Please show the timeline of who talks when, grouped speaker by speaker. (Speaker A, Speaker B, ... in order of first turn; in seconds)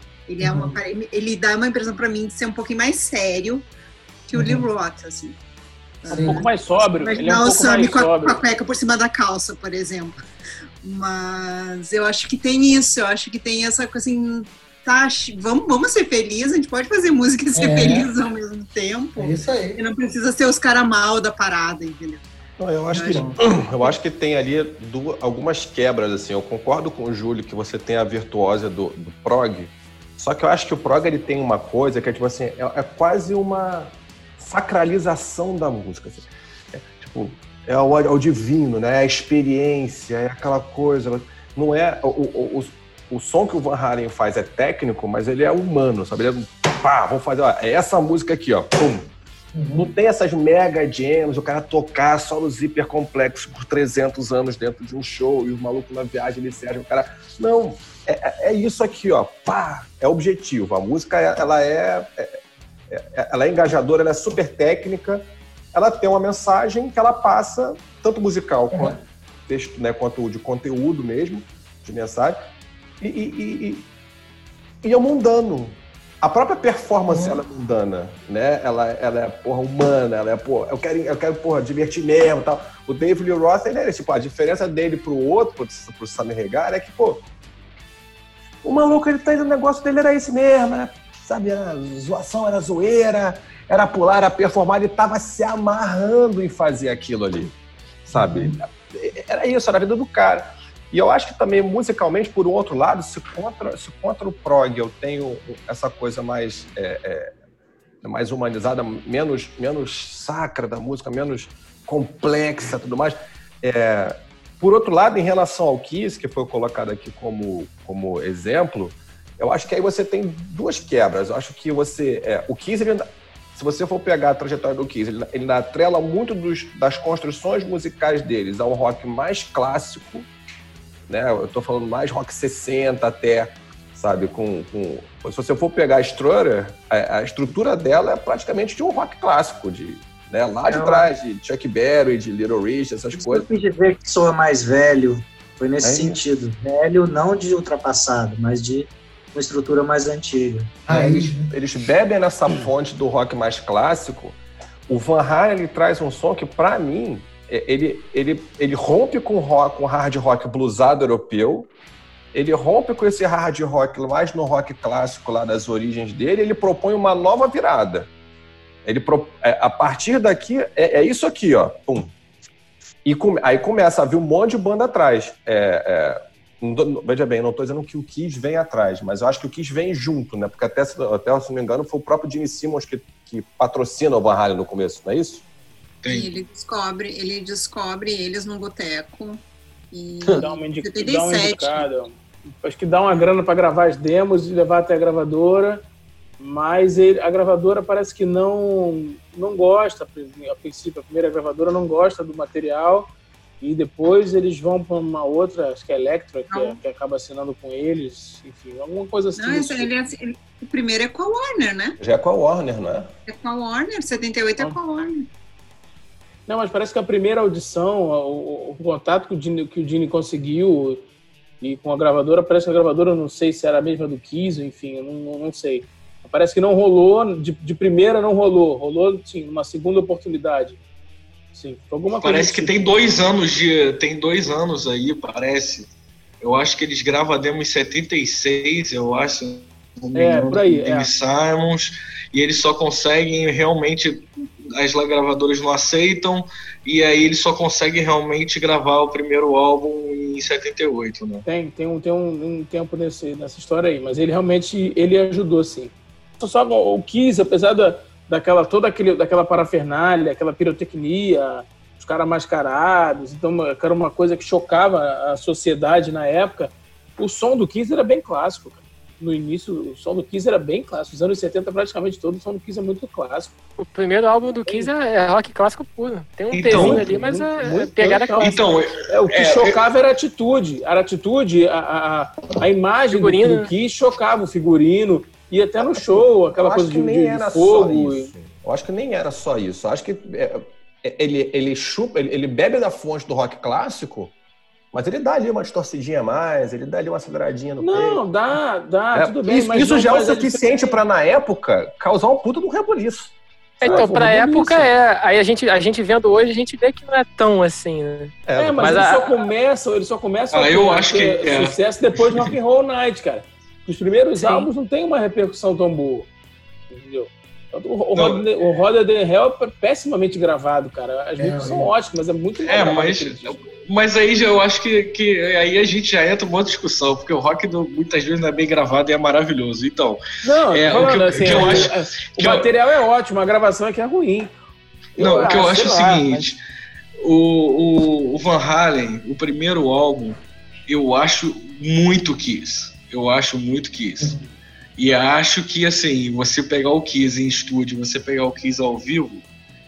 Speaker A: 0.3-3.7, 4.3-5.4, 6.0-10.2, 10.8-22.2, 22.9-23.9, 186.1-191.9, 206.5-206.8, 209.4-212.0, 213.3-215.3
Speaker B: 0.4-0.8, 4.3-4.7, 6.1-6.5, 17.6-18.1, 19.2-19.8, 23.0-23.3, 49.5-49.9, 68.7-69.0, 77.1-77.4, 98.1-98.5, 150.9-151.5, 321.4-321.9
Speaker C: 6.2-8.4, 190.4-195.8, 196.4-209.9, 216.5-221.0, 221.6-230.8, 231.5-232.9, 240.2-241.1, 251.4-273.5, 276.7-288.3, 297.8-300.9, 303.8-304.9, 308.6-316.3, 316.9-323.6, 330.4-334.5, 335.2-336.5
Speaker D: 22.6-49.1, 49.7-62.4, 62.9-69.0, 69.5-72.4, 73.0-73.9, 74.8-87.2, 88.6-97.5, 98.1-107.3, 108.0-130.3, 131.1-143.5, 145.8-146.2, 151.5-161.7, 162.3-168.1, 168.8-172.1, 173.1-185.4, 212.0-213.1, 276.7-277.0, 286.1-294.3, 294.9-298.3, 299.1-304.2, 308.4-309.0
Speaker E: 140.7-141.1, 143.2-151.3
Speaker F: 186.0-186.3, 232.2-235.9, 236.4-251.4, 276.5-277.0, 278.4-279.8, 310.5-312.5, 318.1-318.4, 322.6-332.7, 335.2-336.6, 337.2-344.4, 345.0-349.4
Speaker G: 273.8-278.6, 283.1-283.7, 303.8-309.3, 314.4-314.7